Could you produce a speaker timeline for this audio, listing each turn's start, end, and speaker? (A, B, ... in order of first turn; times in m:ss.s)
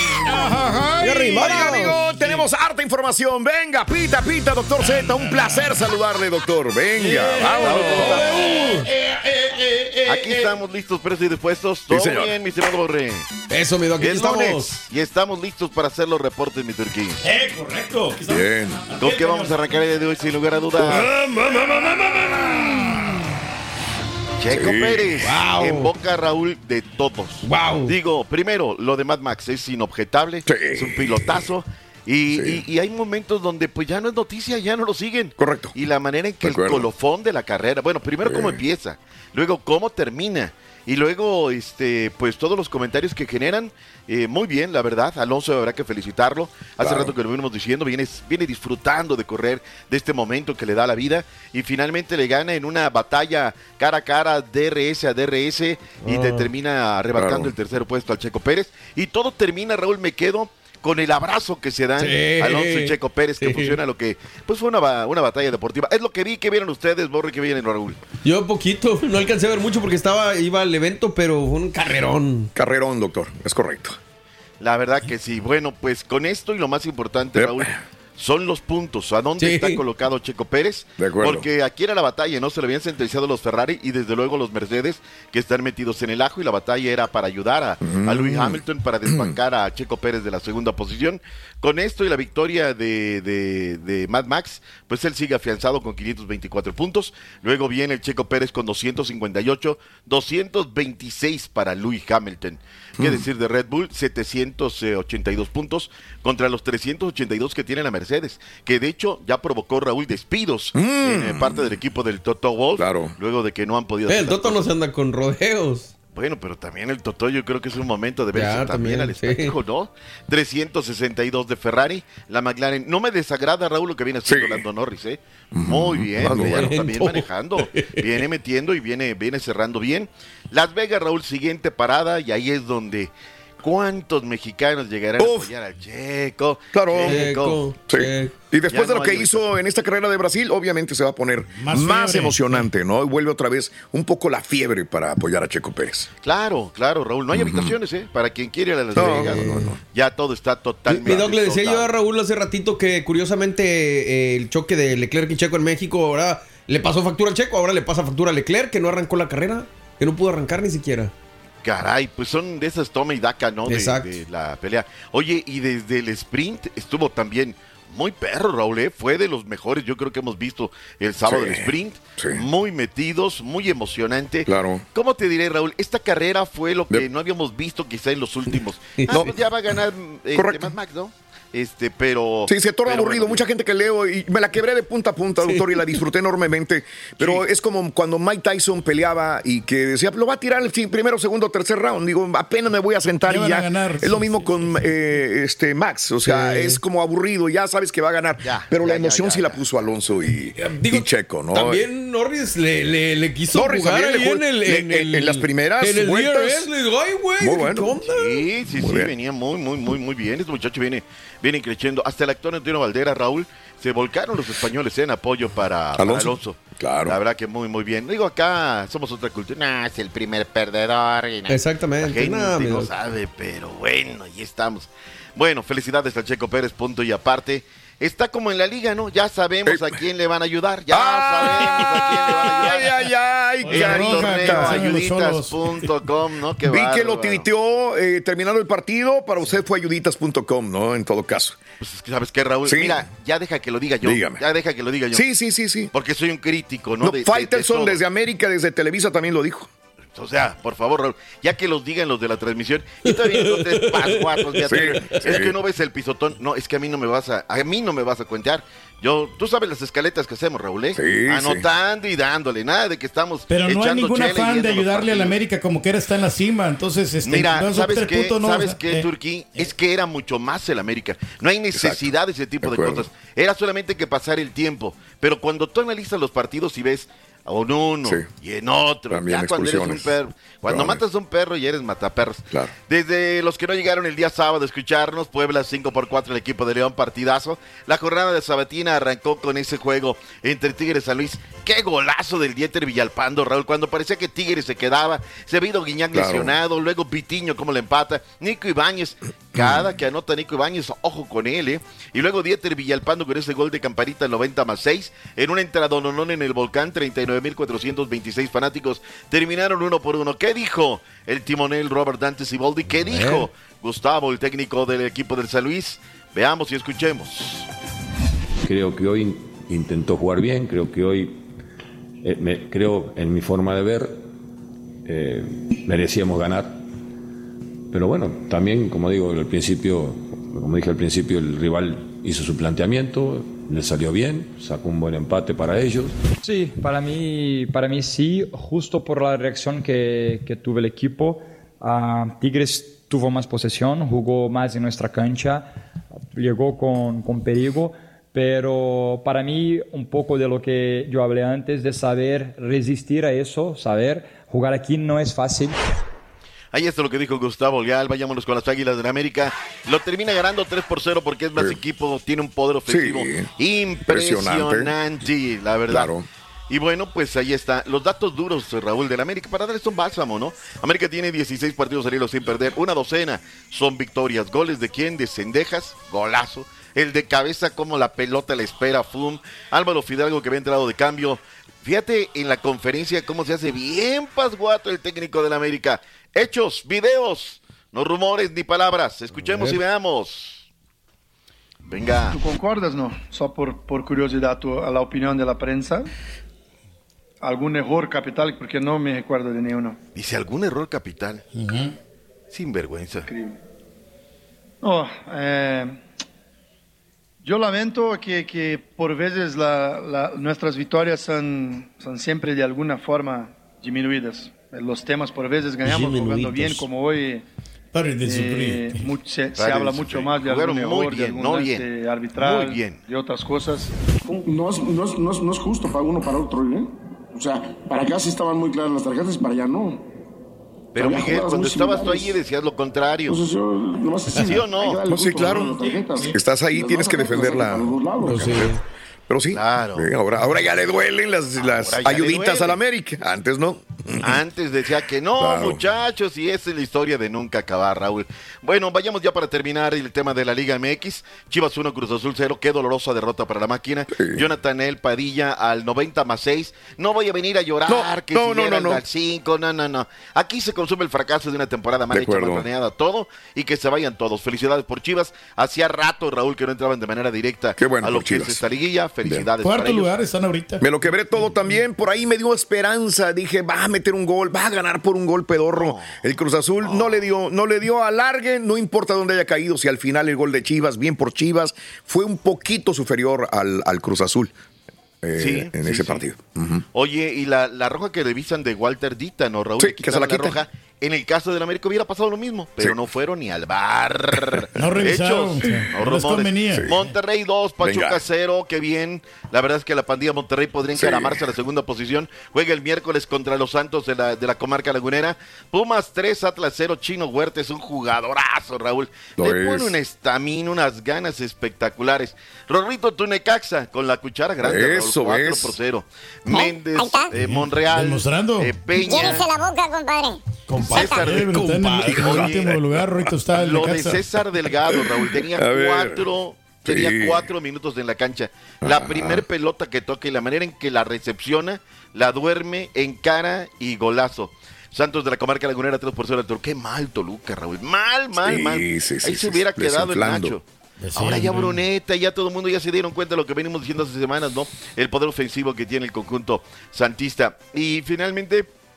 0:00.2-0:02.4 A
0:00.5-0:08.3 B
0:01.0-0:02.0 C
0:04.8-0:05.7 A
0:07.0-0:08.9 C
0:07.0-0:10.5 A
0:07.6-0:08.7 D
0:10.0-0:13.3 D
0:11.9-0:12.3 B
0:13.5-0:14.7 C
0:14.0-0:17.2 D
0:17.2-0:19.8 A
0:18.3-0:18.9 B
0:19.0-0:21.0 D
0:20.8-0:22.5 C
0:21.0-0:23.2 A
0:24.4-1:08.0 D
0:24.4-0:25.2 B
0:25.2-0:25.9 C
0:27.4-0:27.9 C
0:30.4-0:31.5 B
0:32.3-0:32.6 B
0:35.4-0:35.8 B
0:36.4-0:36.9 B
0:38.2-0:38.6 B
0:46.8-0:47.1 B
0:56.0-0:56.5 C
0:57.1-0:57.5 B
1:02.0-1:03.8 C
1:08.2-1:12.5 C
1:12.5-1:14.0 B
1:14.6-1:54.6 D
1:17.3-1:17.8 B
1:19.4-1:19.8 C
1:21.0-1:21.4 B
1:27.8-1:29.3 B
1:43.0-1:43.3 B
1:50.7-1:51.7 B
1:52.8-1:53.1 B
1:54.1-1:55.9 C
1:56.1-2:17.7 D
1:58.3-1:59.6 C
2:04.2-2:04.6 B
2:05.5-2:06.8 B
2:06.2-2:07.9 C
2:15.2-2:15.5 B
2:16.7-2:17.2 B
2:17.0-2:18.3 C
2:17.9-2:26.1 B
2:18.7-2:19.4 D
2:21.6-2:22.6 A
2:26.2-2:31.9 D
2:27.3-2:27.8 B
2:28.9-2:29.8 C
2:28.9-2:29.8 B
2:30.9-2:41.1 C
2:41.6-3:03.4 D
2:43.6-2:44.2 C
2:51.2-2:52.4 B
2:54.4-2:54.8 B
2:59.0-2:59.3 C
2:59.1-2:59.4 B
3:00.3-3:00.7 B
3:02.5-3:21.8 B
3:05.4-3:06.0 C
3:13.3-3:14.4 A
3:16.2-3:16.8 C
3:18.4-3:19.6 D
3:20.6-3:28.4 C
3:23.5-3:26.7 B
3:27.4-3:28.0 B
3:28.0-3:53.0 D
3:28.7-3:29.1 B
3:36.0-3:37.2 B
3:41.5-3:42.9 C
3:49.6-3:50.0 B
3:50.9-3:54.8 B
3:51.6-3:52.0 A
3:53.6-3:57.4 D
3:53.6-3:55.9 A
3:56.6-4:01.6 B
4:01.8-4:05.2 D
4:02.6-4:03.0 B
4:04.0-4:04.4 B
4:05.1-4:05.9 B
4:05.9-4:08.0 D
4:07.0-4:09.7 B
4:10.1-4:25.4 D
4:13.0-4:15.3 C
4:14.6-4:15.6 B
4:20.9-4:21.6 B
4:23.5-4:29.1 A
4:27.2-5:17.6 D
4:31.7-4:33.1 B
4:38.0-4:38.3 B
4:39.1-4:40.1 B
4:40.6-4:41.0 B
4:56.1-4:56.5 B
4:59.5-4:59.9 B
5:13.1-5:13.4 E
5:18.6-5:21.4 E
5:22.2-5:24.3 E
5:25.0-5:26.8 E
5:27.9-5:36.2 E
5:36.4-5:45.7 F
5:46.3-5:55.8 F
5:56.7-6:06.1 D
6:02.8-6:03.5 B
6:04.0-6:04.9 B
6:05.9-6:06.3 B
6:06.7-6:30.6 D
6:31.9-6:32.4 D
6:32.3-6:36.1 G
6:37.4-6:40.0 G
6:40.1-6:41.4 D
6:41.5-6:41.9 A
6:42.5-6:43.3 D
6:43.3-6:43.6 G
6:44.8-6:46.0 G
6:47.4-6:57.4 G
6:55.8-6:56.8 C
6:55.8-6:56.2 A
6:57.9-6:59.0 A
6:58.2-7:03.9 G
6:59.5-7:03.0 D
7:04.3-7:10.1 H
7:10.9-7:13.4 D
7:11.0-7:12.4 H
7:13.3-7:18.5 H
7:14.4-7:15.0 D
7:15.1-7:15.8 B
7:16.3-7:18.8 B
7:18.2-7:18.8 C
7:19.3-7:24.4 B
7:19.5-7:20.1 D
7:21.6-7:22.8 D
7:24.2-7:50.1 D
7:25.4-7:25.8 B
7:34.1-7:34.5 B
7:37.9-7:39.0 B
7:42.1-7:42.7 B
7:47.8-7:48.6 B
7:49.6-7:50.8 A
7:50.8-8:04.5 B
7:55.7-7:56.2 D
7:56.8-7:57.2 D
8:05.2-8:06.8 B
8:05.4-8:06.2 D
8:06.9-8:39.5 D
8:09.8-8:10.6 B
8:14.7-8:17.1 A
8:17.8-8:18.2 B
8:20.9-8:21.5 B
8:29.4-8:29.9 B
8:34.6-8:35.7 B
8:36.5-8:37.3 I
8:37.3-8:38.7 A
8:38.9-8:40.4 I
8:40.7-8:42.4 C
8:40.9-8:42.8 D
8:40.9-8:41.3 I
8:41.0-8:44.2 A
8:42.0-8:43.3 B
8:43.5-9:00.6 D
8:44.9-8:46.3 B
8:46.8-8:47.5 B
8:48.8-8:49.4 B
8:58.4-9:00.6 B
9:01.0-9:01.8 A
9:01.1-9:08.7 D